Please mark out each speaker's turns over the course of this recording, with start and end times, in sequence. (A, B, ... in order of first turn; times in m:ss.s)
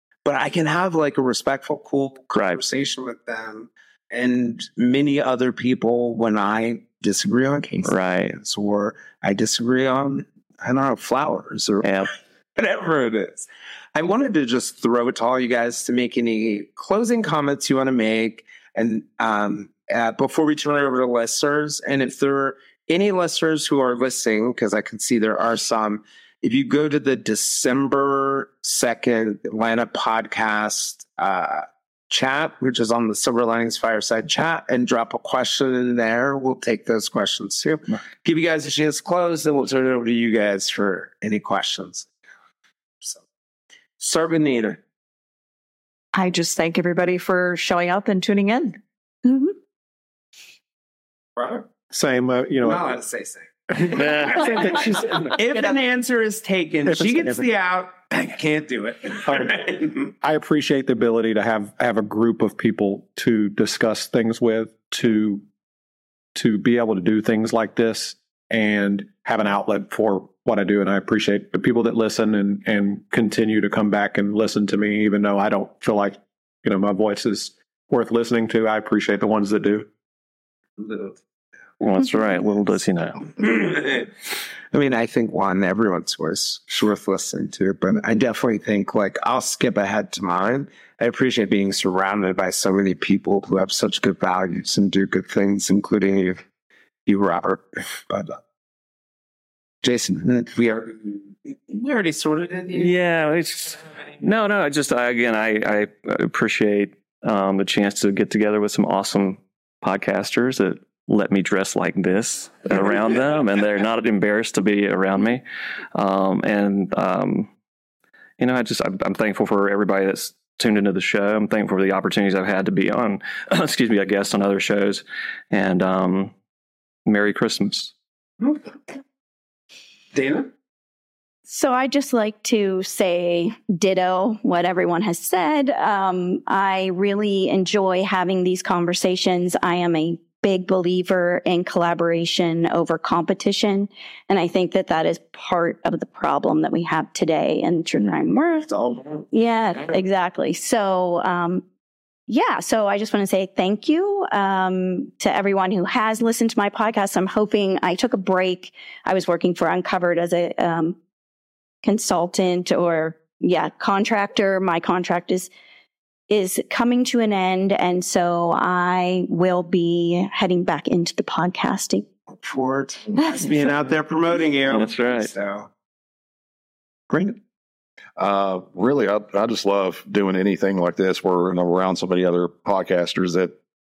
0:00.2-0:42.1 A
0:02.3-0:02.6 B
0:07.8-0:08.4 B
0:11.8-0:12.1 B
0:44.0-0:44.8 A
0:46.1-0:48.8 C
0:49.2-0:49.5 D
0:51.4-0:51.7 A
0:51.9-0:52.9 E
0:52.6-1:00.1 A
0:53.9-0:54.4 B
0:56.8-0:57.4 E
1:00.2-1:05.4 E
1:06.3-1:19.9 E
1:21.8-1:23.3 B
1:23.3-1:24.2 A
1:24.7-1:36.4 A
1:37.0-1:38.4 A
1:39.8-1:42.9 A
1:42.7-1:55.4 B
1:55.9-1:57.5 B
1:58.4-2:06.3 B
2:07.0-2:07.9 B
2:08.4-2:08.7 A
2:10.1-2:10.5 A
2:11.5-2:28.7 D
2:28.7-2:29.2 A
2:29.3-2:31.6 D
2:32.3-2:41.0 D
2:41.8-2:45.5 D
2:46.3-2:52.1 D
2:52.3-2:55.7 A
2:54.7-2:55.3 B
2:57.1-2:57.4 A
2:58.2-3:03.5 F